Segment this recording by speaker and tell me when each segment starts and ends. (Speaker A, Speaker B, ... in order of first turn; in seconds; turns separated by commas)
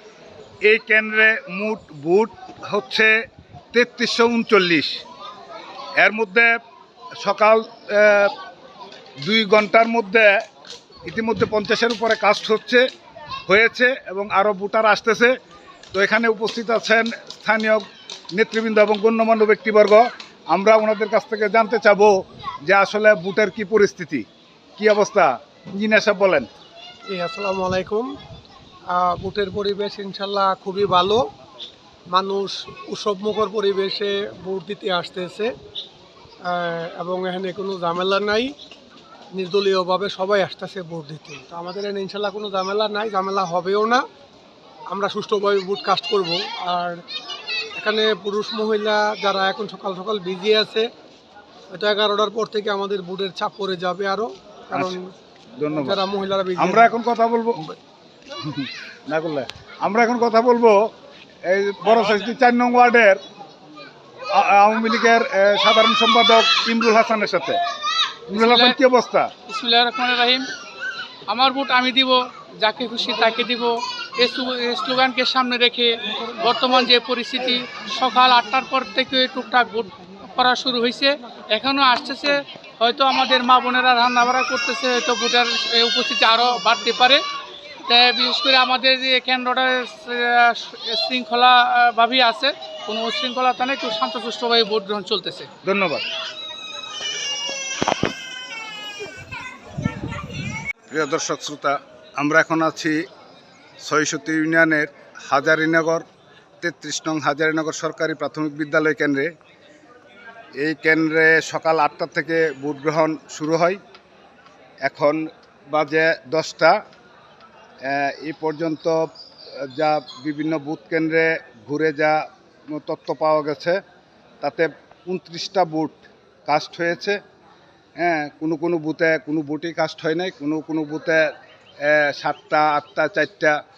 Speaker A: 0.6-5.0, Speaker A: 6.0-6.6, Speaker A: 7.2-8.3, Speaker A: 9.2-10.4, Speaker A: 11.1-12.8, Speaker A: 13.5-15.4, Speaker A: 15.9-24.3, Speaker A: 24.8-26.5, Speaker B: 27.1-28.1, Speaker B: 28.9-31.2, Speaker B: 32.1-35.5, Speaker B: 36.5-38.5, Speaker B: 39.3-44.0, Speaker B: 44.9-47.0, Speaker B: 47.8-50.9, Speaker B: 51.7-55.0, Speaker A: 55.6-56.0, Speaker B: 55.8-57.0, Speaker A: 56.6-57.7, Speaker A: 58.4-60.9, Speaker A: 61.5-63.2, Speaker A: 64.3-67.6, Speaker A: 68.3-69.3, Speaker C: 68.3-68.8, Speaker C: 69.5-70.5, Speaker C: 71.3-87.2, Speaker C: 87.9-95.5, Speaker A: 95.6-96.0, Speaker A: 100.9-103.0, Speaker A: 103.8-106.0, Speaker A: 106.6-109.3, Speaker A: 110.6-113.8, Speaker A: 114.8-116.8, Speaker A: 117.8-123.8, Speaker A: 124.4-127.2, Speaker A: 128.0-133.6